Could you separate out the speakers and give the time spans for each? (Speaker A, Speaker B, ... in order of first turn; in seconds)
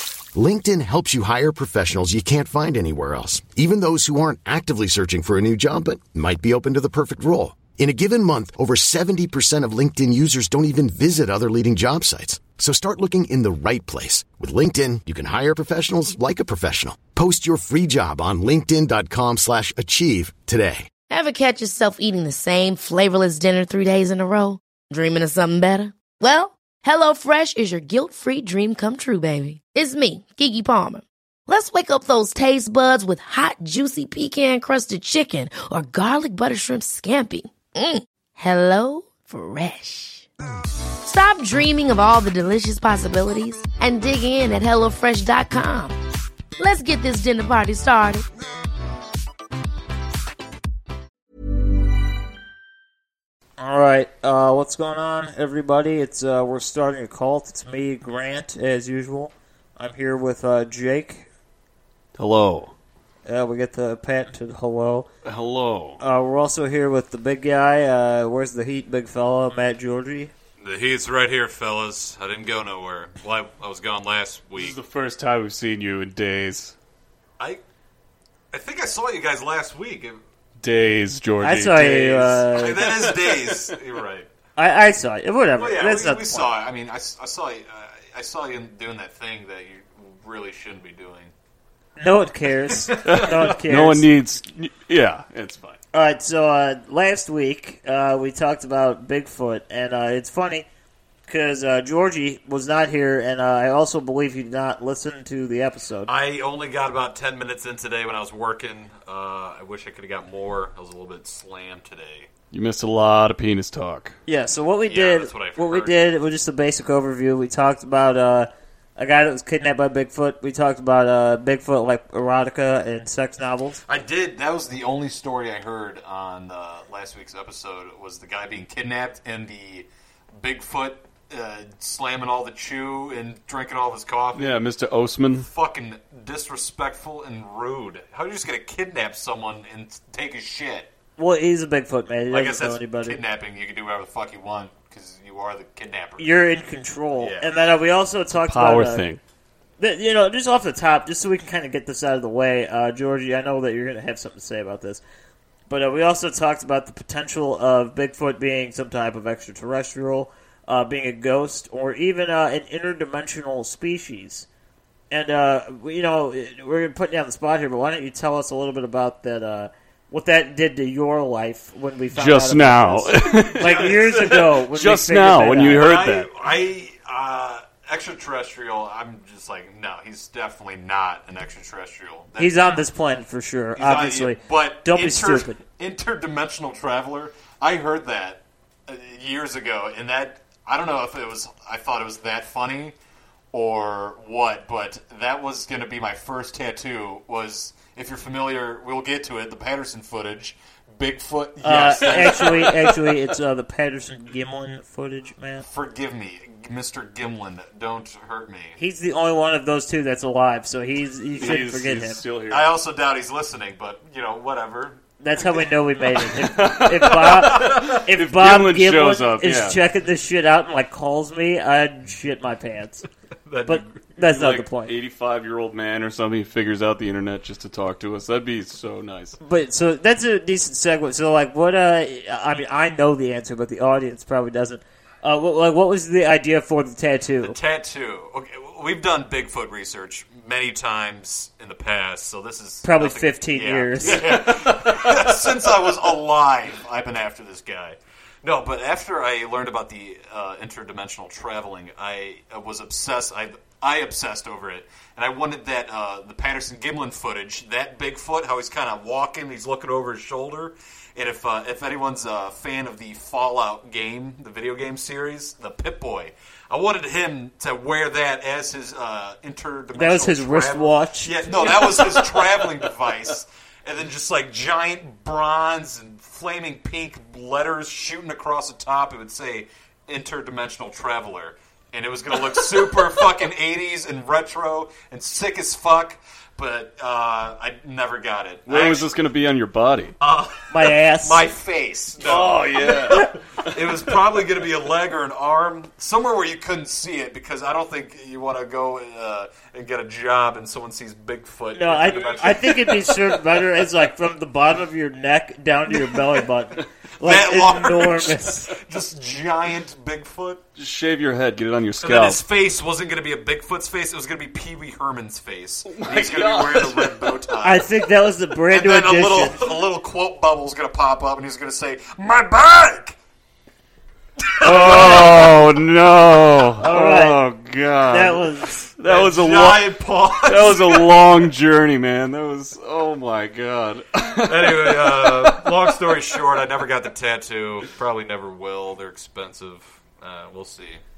Speaker A: 0.3-20.9
Speaker B: 21.1-40.3, 41.0-46.0, 46.6-48.2
Speaker C: 53.6-61.3, 63.2-65.1, 66.0-70.3, 81.4-82.8, 84.6-86.5, 92.0-94.0, 95.9-100.7, 101.3-106.1, 114.3-123.8, 141.2-143.2, 146.2-149.0, 149.8-155.0, 155.7-164.5, 165.1-175.8, 182.4-185.6, 201.6-205.7, 208.8-212.2, 215.2-223.1, 223.7-224.9, 229.4-237.6, 242.8-244.2, 269.9-271.7, 290.7-291.4, 301.7-308.7, 317.6-319.6, 326.8-327.4, 328.1-328.9
Speaker D: 62.2-62.7, 65.2-66.0, 74.6-76.7, 80.6-83.7, 93.0-95.8, 112.5-114.2, 134.3-135.5, 148.5-149.2, 172.1-176.3, 211.4-212.7, 216.2-219.8, 224.2-229.4, 244.1-245.4, 271.6-272.9, 288.7-290.1, 292.2-294.1, 310.7-312.4, 315.9-317.3, 324.6-328.4, 329.0-329.9, 330.4-336.4
Speaker E: 70.6-74.8, 78.5-80.2, 82.5-84.3, 85.6-91.3, 106.1-112.3, 114.9-115.9, 123.9-129.9, 130.4-134.6, 135.4-140.9, 142.3-146.3, 147.2-147.5, 173.2-174.3, 175.7-182.8, 183.8-192.9, 193.5-203.1, 205.7-208.8, 212.5-215.0, 217.5-218.0, 223.5-224.1, 237.4-289.1, 290.2-303.4, 307.2-310.6, 312.0-317.9, 318.7-323.2, 324.4-325.5, 329.0-331.4, 334.4-341.0